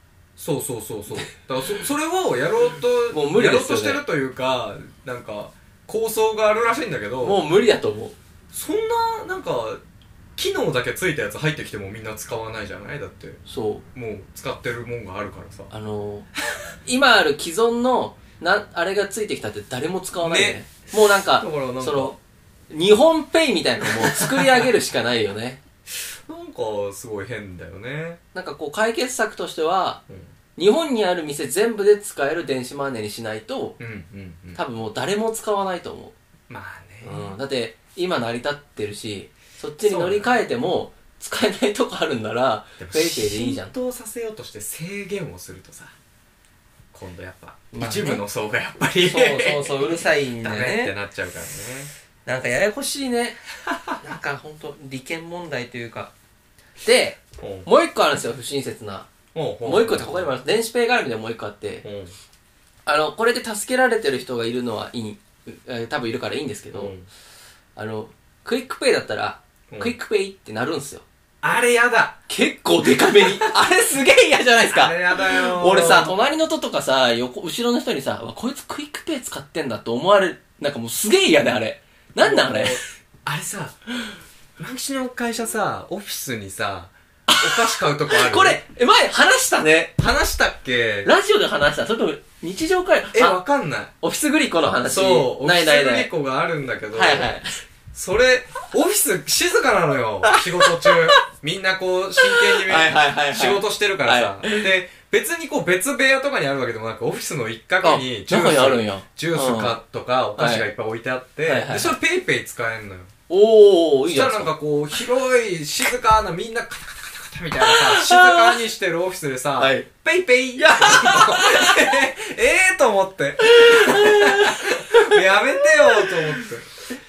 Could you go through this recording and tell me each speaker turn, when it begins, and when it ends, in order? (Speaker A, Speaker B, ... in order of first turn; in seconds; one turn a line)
Speaker A: 0.4-7.4
Speaker B: 3.1-4.0
Speaker B: 7.2-8.2
Speaker A: 8.5-9.8
Speaker A: 10.4-13.4
Speaker B: 13.5-13.8
Speaker A: 13.9-15.7
Speaker B: 15.7-16.3
Speaker B: 16.9-22.2
Speaker A: 20.2-20.8
Speaker A: 21.4-22.1
Speaker B: 22.7-25.6
Speaker A: 24.0-24.6
Speaker A: 25.9-28.2
Speaker B: 28.3-30.0
Speaker B: 30.6-33.8
Speaker A: 33.8-34.6
Speaker B: 34.5-36.1
Speaker A: 36.5-37.4
Speaker B: 37.0-43.7
Speaker A: 39.8-40.4
Speaker A: 42.8-45.9
Speaker A: 46.9-51.9
Speaker B: 47.7-48.2
Speaker B: 49.0-50.9
Speaker B: 52.3-53.4
Speaker B: 54.0-56.1
Speaker B: 56.8-59.1
Speaker A: 57.4-57.7
Speaker A: 59.3-60.3
Speaker B: 59.6-61.9
Speaker A: 61.8-62.1
Speaker B: 62.9-66.9
Speaker A: 66.7-67.1
Speaker B: 67.8-71.0
Speaker A: 71.4-72.2
Speaker B: 72.3-82.8
Speaker A: 72.8-73.5
Speaker A: 74.7-76.1
Speaker A: 82.2-83.8
Speaker A: 84.6-88.6
Speaker B: 87.3-90.0
Speaker A: 90.0-91.1
Speaker B: 91.0-93.4
Speaker A: 93.1-93.9
Speaker B: 94.0-96.1
Speaker A: 94.8-97.3
Speaker B: 96.9-97.6
Speaker A: 97.9-113.1
Speaker B: 100.2-101.2
Speaker B: 102.2-104.7
Speaker B: 107.8-109.8
Speaker B: 110.4-110.7
Speaker B: 111.5-112.0
Speaker B: 113.3-114.5
Speaker A: 114.1-126.7
Speaker B: 117.6-118.6
Speaker B: 119.6-119.9
Speaker B: 120.6-121.8
Speaker B: 123.5-126.4